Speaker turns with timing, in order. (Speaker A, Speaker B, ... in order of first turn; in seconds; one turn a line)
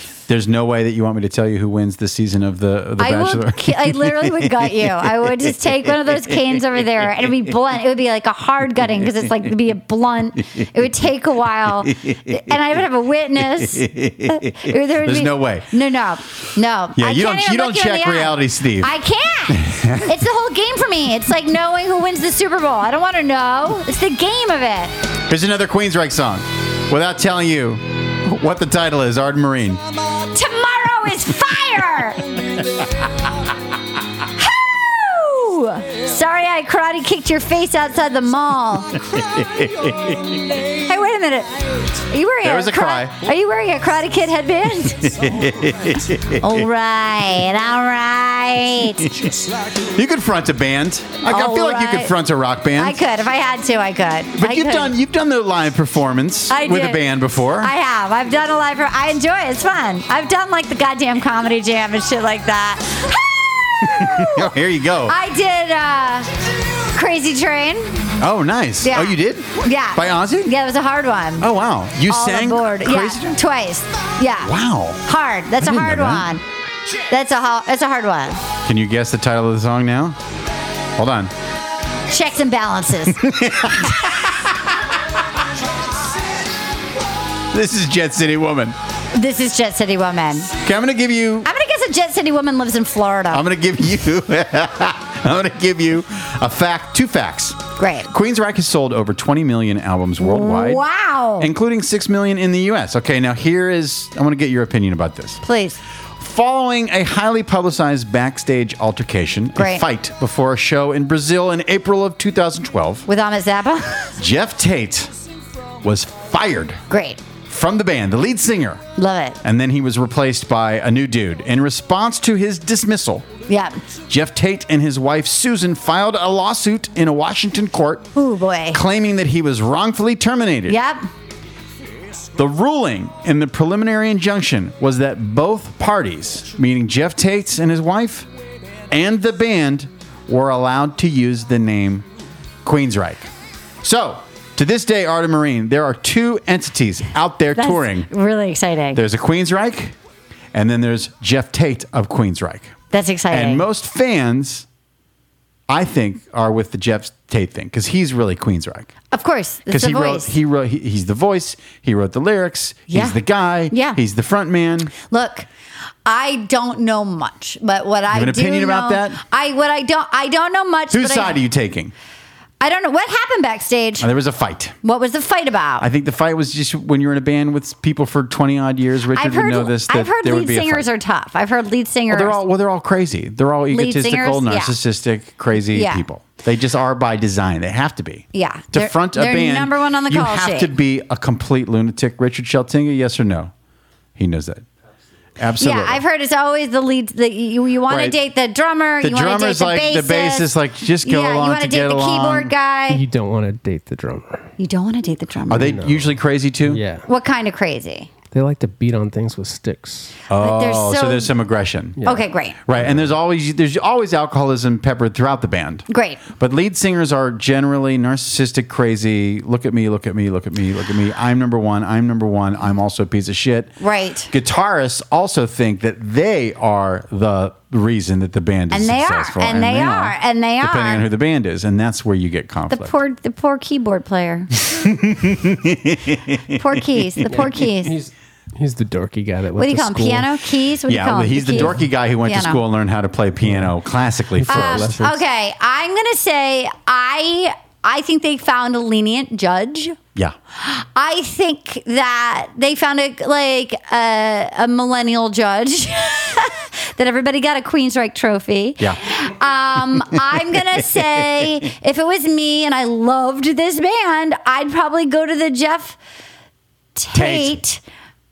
Speaker A: 0.3-4.7
Speaker B: 3.0-24.9
Speaker A: 11.9-12.4
Speaker A: 13.6-15.7
Speaker A: 16.9-18.9
Speaker A: 19.5-20.1
Speaker A: 25.3-29.8
Speaker B: 30.2-32.3
Speaker B: 34.4-39.0
Speaker A: 39.0-40.6
Speaker B: 40.8-45.2
Speaker A: 42.4-43.2
Speaker A: 45.0-46.6
Speaker B: 46.4-49.1
Speaker A: 49.0-53.0
Speaker B: 51.2-52.1
Speaker B: 52.8-54.9
Speaker A: 54.4-57.7
Speaker B: 56.5-57.0
Speaker B: 57.6-64.5
Speaker A: 63.8-65.2
Speaker B: 65.0-66.3
Speaker B: 66.9-68.0
Speaker A: 68.2-70.5
Speaker B: 68.8-71.5
Speaker A: 71.4-73.3
Speaker B: 72.1-76.4
Speaker A: 74.4-75.0
Speaker A: 75.6-76.3
Speaker B: 77.1-78.4
Speaker A: 78.6-80.2
Speaker A: 81.0-81.3
Speaker B: 82.1-84.2
Speaker A: 83.1-84.7
Speaker A: 87.5-88.7
Speaker B: 89.1-90.5
Speaker A: 90.6-91.5
Speaker B: 91.4-93.4
Speaker A: 93.3-100.8
Speaker B: 97.8-98.1
Speaker B: 100.2-101.5
Speaker A: 101.4-105.4
Speaker B: 105.4-105.8
Speaker A: 106.2-113.0
Speaker B: 109.5-109.8
Speaker B: 113.0-114.1
Speaker A: 114.2-115.1
Speaker A: 115.8-116.8
Speaker B: 116.9-117.2
Speaker A: 117.4-118.8
Speaker B: 119.0-119.4
Speaker A: 119.4-123.3
Speaker B: 123.5-123.8
Speaker A: 124.1-128.1
Speaker B: 128.1-128.8
Speaker A: 128.7-130.8
Speaker B: 130.7-131.1
Speaker A: 132.3-138.3
Speaker A: 138.9-142.0
Speaker A: 142.6-143.3
Speaker A: 143.8-148.1
Speaker B: 147.5-149.0
Speaker A: 148.9-149.9
Speaker A: 150.5-152.7
Speaker B: 152.9-153.6
Speaker A: 153.3-154.7
Speaker A: 155.7-158.9
Speaker B: 159.1-160.3
Speaker A: 159.7-164.9
Speaker B: 162.9-163.2
Speaker B: 163.7-164.0
Speaker B: 165.1-165.5
Speaker B: 166.1-171.4
Speaker A: 168.1-169.2
Speaker A: 170.9-171.9
Speaker B: 172.6-174.1
Speaker A: 174.0-174.8
Speaker B: 174.8-175.9
Speaker A: 175.8-180.9
Speaker B: 179.1-182.4
Speaker A: 182.1-193.5
Speaker B: 183.7-184.7
Speaker B: 185.7-186.0
Speaker B: 188.3-190.7
Speaker A: 194.2-194.7
Speaker A: 195.4-196.0
Speaker B: 195.6-200.5
Speaker A: 197.9-198.1
Speaker A: 199.0-202.5
Speaker B: 201.0-203.0
Speaker C: 202.9-204.5
Speaker B: 204.6-205.8
Speaker A: 205.5-206.8
Speaker C: 205.6-206.1
Speaker C: 206.6-207.1
Speaker B: 207.0-208.1
Speaker C: 208.3-210.2
Speaker A: 210.3-215.8
Speaker B: 210.3-211.3
Speaker B: 212.0-212.6
Speaker B: 215.9-216.2
Speaker A: 216.4-223.7
Speaker B: 223.8-224.3
Speaker A: 224.3-232.9
Speaker B: 228.7-231.0
Speaker B: 232.7-234.6
Speaker A: 234.6-237.5
Speaker B: 236.5-237.9
Speaker C: 237.3-240.3
Speaker B: 239.6-242.6
Speaker A: 240.9-244.9
Speaker C: 241.5-241.8
Speaker C: 243.4-243.7
Speaker C: 244.3-245.2
Speaker B: 244.5-250.0
Speaker B: 250.6-266.0
Speaker B: 266.9-267.8
Speaker A: 267.1-267.6